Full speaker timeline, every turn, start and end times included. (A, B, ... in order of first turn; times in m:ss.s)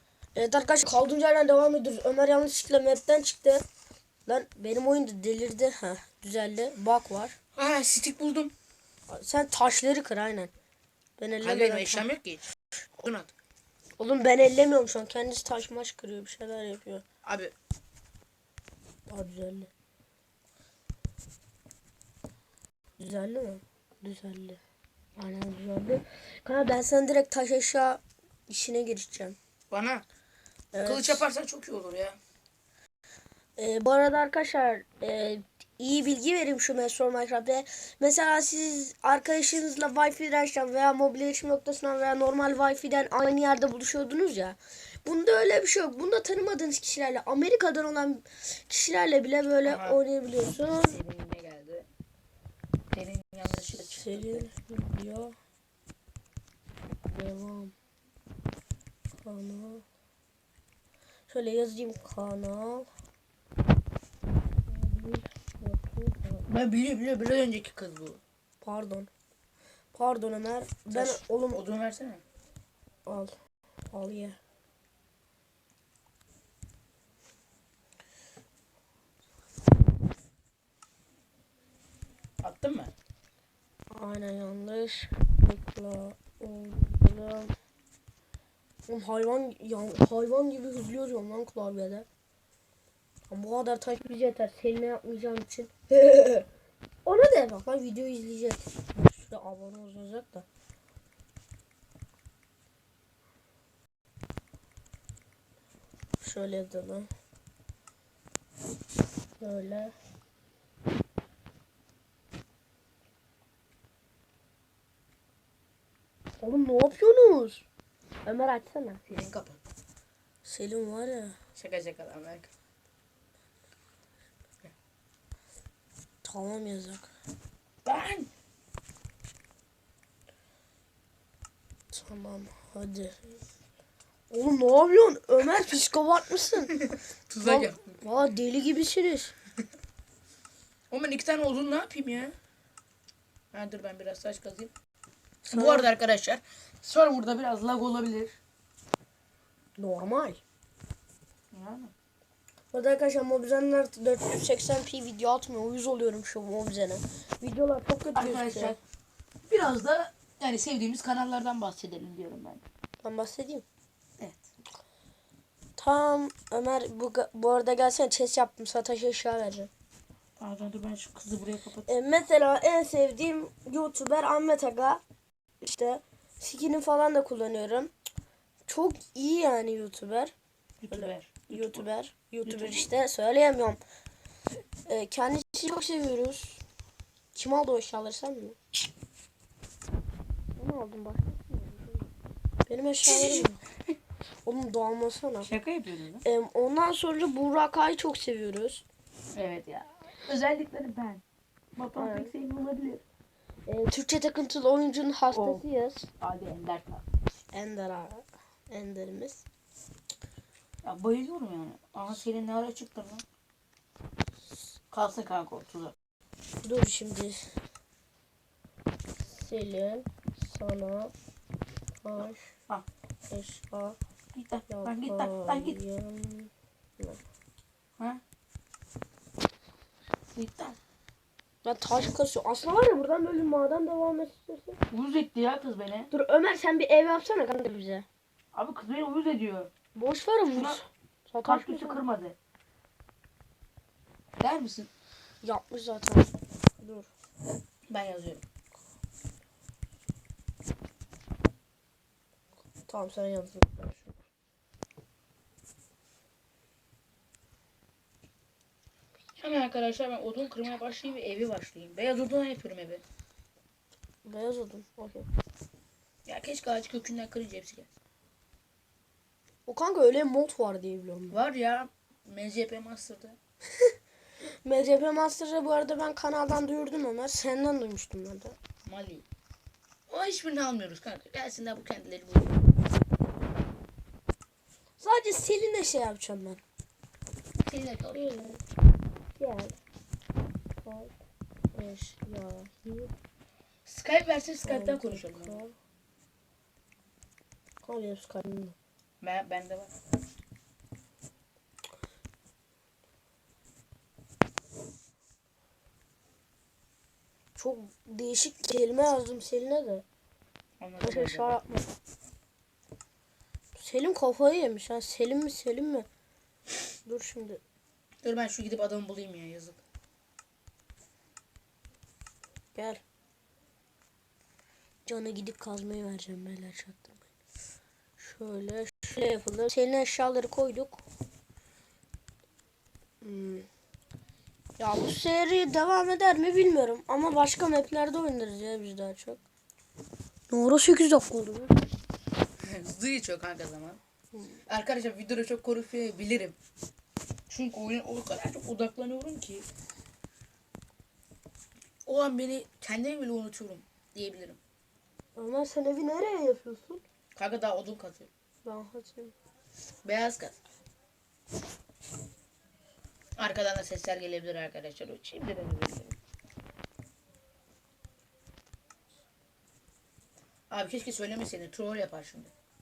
0:00.4-0:03.6 A
0:04.3-0:07.4 A
0:07.6-0:08.5 B
0:09.1-0:10.5 A
0:11.2-0:12.0 A
0:11.4-0:13.3 B
0:14.0-0:17.0 A
0:17.2-0:17.5 B
0:19.1-0:19.7 A
0:23.0-0:24.6 A
0:25.2-0:29.4 A
0:29.7-0:30.0 B
0:30.7-0:31.2 A
0:30.8-0:32.2 B
0:33.6-0:51.0 A
0:49.6-0:51.9 B
0:52.9-0:54.5 B
0:53.7-0:55.3 A
0:57.1-0:57.7 A
0:59.2-0:59.8 A
1:01.3-1:02.9 A
1:04.7-1:06.5 A
1:06.5-1:08.2 B
1:08.6-1:09.1 A
1:09.9-1:11.6 A
1:10.9-1:12.2 B
1:13.1-1:13.4 A
1:13.9-1:14.4 A
1:22.4-1:22.9 B
1:23.9-1:27.5 A
1:28.9-1:32.1 A
1:33.3-1:36.5 A
1:37.0-1:40.5 A
1:46.2-1:47.1 A
1:49.4-1:49.9 A
1:56.4-1:57.6 A
1:58.2-1:59.1 A
1:59.1-1:59.6 B
2:00.4-2:01.4 A
2:01.6-2:02.5 B
2:06.2-2:07.1 A
2:07.8-2:08.3 B
2:11.9-2:13.4 A
2:14.3-2:16.7 A
2:16.7-2:18.0 B
2:17.4-2:19.4 A
2:20.9-2:22.4 B
2:23.5-2:24.7 B
2:25.4-2:25.9 A
2:25.5-2:28.4 B
2:29.8-2:30.4 A
2:31.5-2:31.9 B
2:32.7-2:38.8 A
2:38.1-2:38.8 B
2:39.5-2:42.6 B
2:43.0-2:43.6 A
2:44.2-2:44.5 B
2:45.8-2:49.7 A
2:50.4-2:51.9 B
2:51.9-2:55.0 A
2:55.6-2:57.9 A
2:58.7-3:00.3 A
3:00.8-3:01.9 B
3:00.9-3:03.8 A
3:02.4-3:02.9 B
3:04.9-3:06.6 A
3:07.3-3:08.6 A
3:10.6-3:12.1 A
3:12.7-3:13.6 A
3:13.0-3:13.5 B
3:14.5-3:15.5 A
3:15.4-3:16.2 B
3:16.2-3:18.8 A
3:19.3-3:21.2 B
3:21.8-3:23.0 B
3:22.0-3:22.3 A
3:23.7-3:26.1 A
3:25.3-3:25.6 B
3:26.2-3:27.0 B
3:27.5-3:29.4 A
3:30.8-3:33.2 B
3:34.9-3:36.0 B
3:36.6-3:37.5 A
3:39.2-3:41.1 A
3:42.0-3:42.5 A
3:42.2-3:42.8 B
3:43.3-3:44.0 A
3:44.3-3:45.8 B
3:44.7-3:47.2 A
3:50.3-3:50.8 B
3:51.6-3:54.8 A
3:54.9-3:56.1 B
3:56.1-3:58.1 A
3:58.5-3:59.7 B
4:00.0-4:02.0 A
4:00.5-4:00.8 B
4:01.4-4:02.4 B
4:04.4-4:04.9 B
4:05.4-4:07.1 A
4:07.9-4:08.4 B
4:12.9-4:14.2 A
4:19.4-4:23.0 B
4:24.2-4:25.3 A
4:26.3-4:27.9 B
4:29.7-4:31.4 A
4:31.3-4:33.4 B
4:34.6-4:38.6 A
4:38.9-4:39.2 B
4:40.1-4:42.6 B
4:45.0-4:46.6 A
4:47.6-4:48.4 B
4:48.1-4:48.6 A
4:49.4-4:49.8 A
4:50.8-4:51.1 A
4:51.7-4:53.1 A
4:53.9-4:55.6 B
4:54.6-4:55.7 A
4:57.8-4:58.8 A
4:59.2-4:59.9 B
5:07.6-5:10.0 A
5:10.8-5:11.6 B
5:11.0-5:11.9 A
5:13.8-5:16.1 A
5:17.1-5:17.6 A
5:18.2-5:19.8 B
5:22.8-5:23.0 A
5:25.1-5:27.2 A
5:28.2-5:31.0 A
5:33.2-5:33.7 A
5:34.8-5:39.4 A
5:40.5-5:41.9 A
5:42.6-5:44.0 B
5:44.3-5:44.6 A
5:44.7-5:46.6 B
5:47.5-5:49.7 B
5:52.1-5:54.6 B
5:55.4-5:57.0 A
5:57.4-5:58.3 B
5:58.6-5:59.3 A
6:00.0-6:00.6 B
6:03.4-6:06.2 B
6:10.7-6:12.5 B